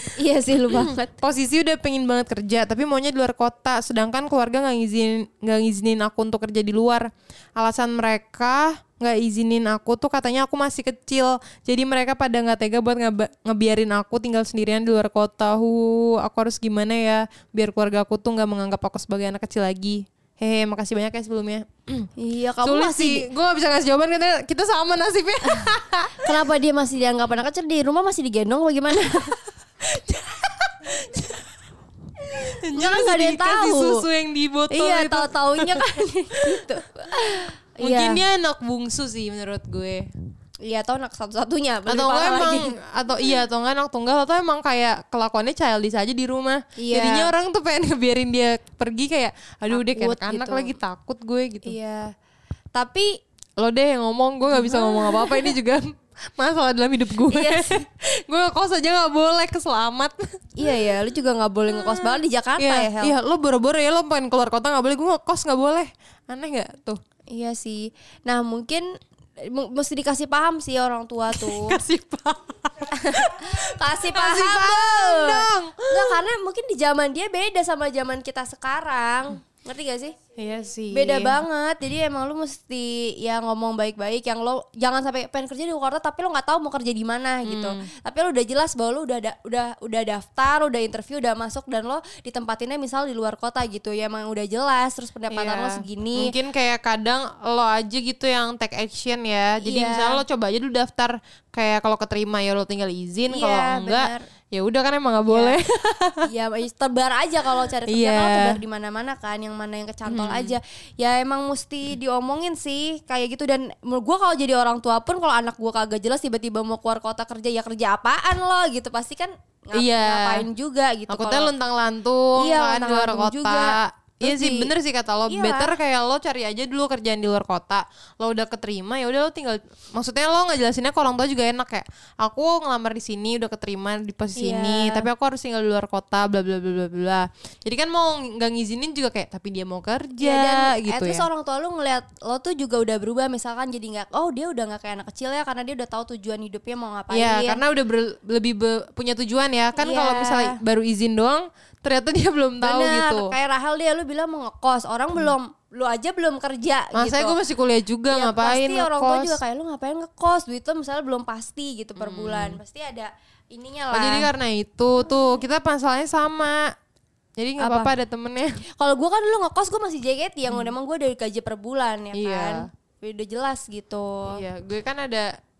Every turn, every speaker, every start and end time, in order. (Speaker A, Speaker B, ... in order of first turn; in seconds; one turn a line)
Speaker A: 0.2-1.1
Speaker B: 0.7-22.1
Speaker A: 22.1-23.3
Speaker B: 22.6-26.3
Speaker A: 26.2-29.4
Speaker B: 29.8-31.4
Speaker B: 32.4-36.7
Speaker A: 32.6-34.0
Speaker A: 34.7-38.2
Speaker B: 37.3-40.0
Speaker A: 40.6-42.7
Speaker B: 41.9-51.8
Speaker A: 46.8-47.3
Speaker A: 49.7-50.8
Speaker A: 51.6-52.1
Speaker A: 52.7-53.2
Speaker B: 53.6-55.8
Speaker A: 54.5-55.5
Speaker B: 56.4-60.3
Speaker A: 57.2-57.8
Speaker A: 60.6-63.1
Speaker B: 61.7-67.0
Speaker A: 67.3-68.8
Speaker A: 69.4-71.8
Speaker B: 71.3-76.2
Speaker A: 72.8-80.2
Speaker B: 80.4-81.4
Speaker A: 80.9-96.3
Speaker B: 87.4-87.9
Speaker B: 95.3-106.3
Speaker A: 99.6-100.2
Speaker A: 103.3-104.2
Speaker A: 105.3-105.6
Speaker A: 106.2-121.5
Speaker B: 107.8-108.6
Speaker B: 110.1-110.6
Speaker B: 119.7-120.5
Speaker B: 121.1-141.3
Speaker A: 122.3-124.7
Speaker A: 125.3-125.8
Speaker A: 134.4-135.1
Speaker A: 140.2-147.6
Speaker B: 147.1-153.3
Speaker A: 149.8-150.6
Speaker A: 152.6-157.4
Speaker B: 156.9-159.4
Speaker A: 158.1-164.3
Speaker B: 162.0-162.6
Speaker B: 163.9-166.7
Speaker B: 167.4-168.6
Speaker A: 167.6-167.9
Speaker A: 168.7-174.4
Speaker B: 170.5-170.7
Speaker B: 172.1-172.7
Speaker B: 174.3-175.3